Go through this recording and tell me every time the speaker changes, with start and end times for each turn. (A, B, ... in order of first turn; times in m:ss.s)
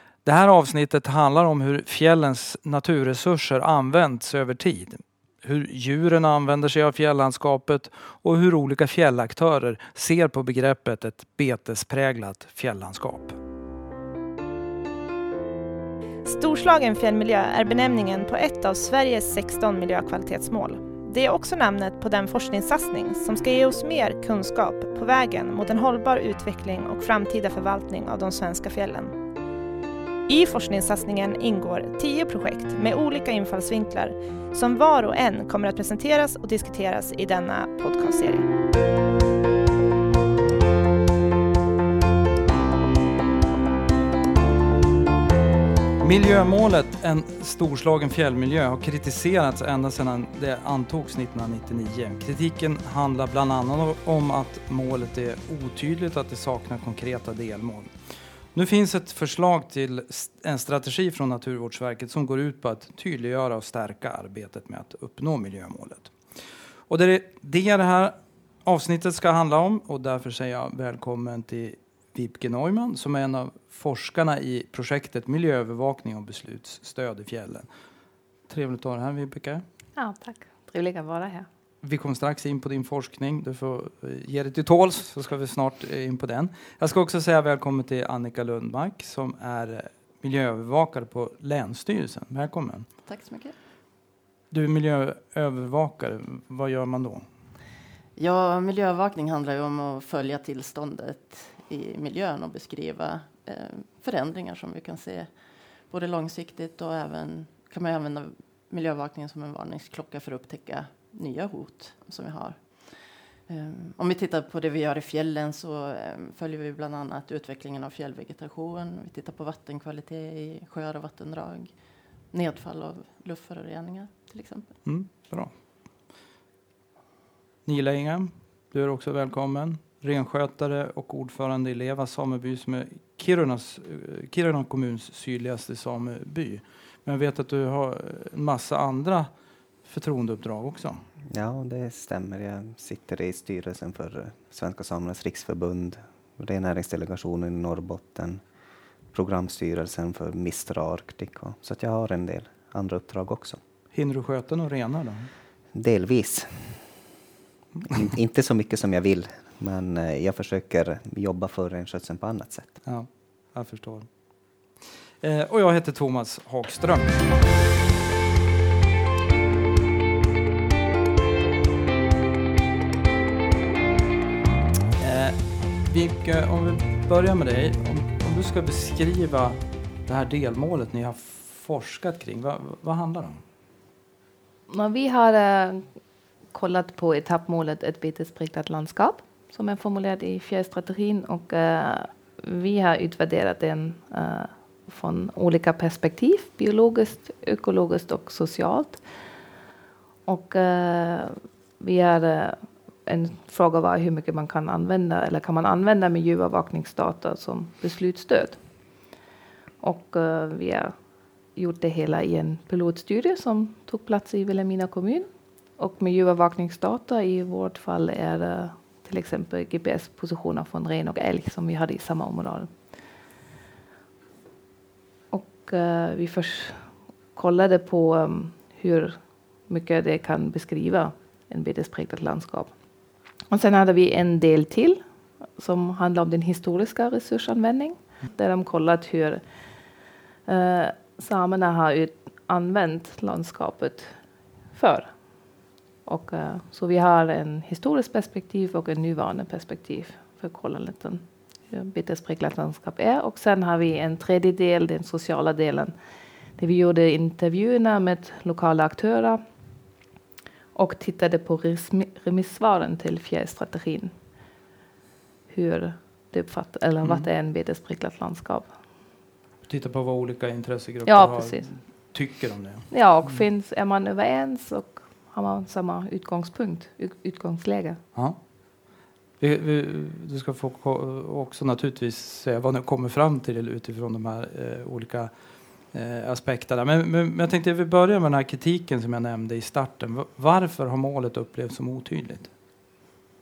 0:00.2-0:13.4 A
0:16.2-0:29.1 B
0:30.3-0:38.4 B
0:46.0-0:57.9 A
0:58.5-1:17.7 A
1:18.5-1:19.6 A
1:20.0-1:21.5 C
1:21.8-1:32.9 A
1:33.0-1:33.5 D
1:34.5-1:37.2 A
1:38.2-1:45.3 D
1:45.9-2:04.7 D
2:04.8-2:05.5 A
2:07.6-2:19.3 A
2:19.8-2:21.0 A
2:21.3-2:28.4 E
2:29.1-2:33.6 E
2:33.9-2:35.3 A
2:35.7-2:36.8 E
2:37.9-2:42.8 E
2:42.8-2:47.3 A
2:55.0-3:03.4 A
3:04.7-3:05.9 C
3:06.5-3:19.0 C
3:20.2-3:28.6 C
3:29.8-3:30.9 C
3:31.5-3:42.7 C
3:45.3-3:52.7 C
3:53.5-3:55.0 C
3:55.6-3:59.4 C
4:00.5-4:15.9 C
4:16.6-4:19.4 C
4:20.7-4:24.1 C
4:25.5-4:28.7 C
4:29.7-4:33.4 A
4:31.0-4:31.7 C
4:32.9-4:38.0 C
4:38.1-4:52.5 A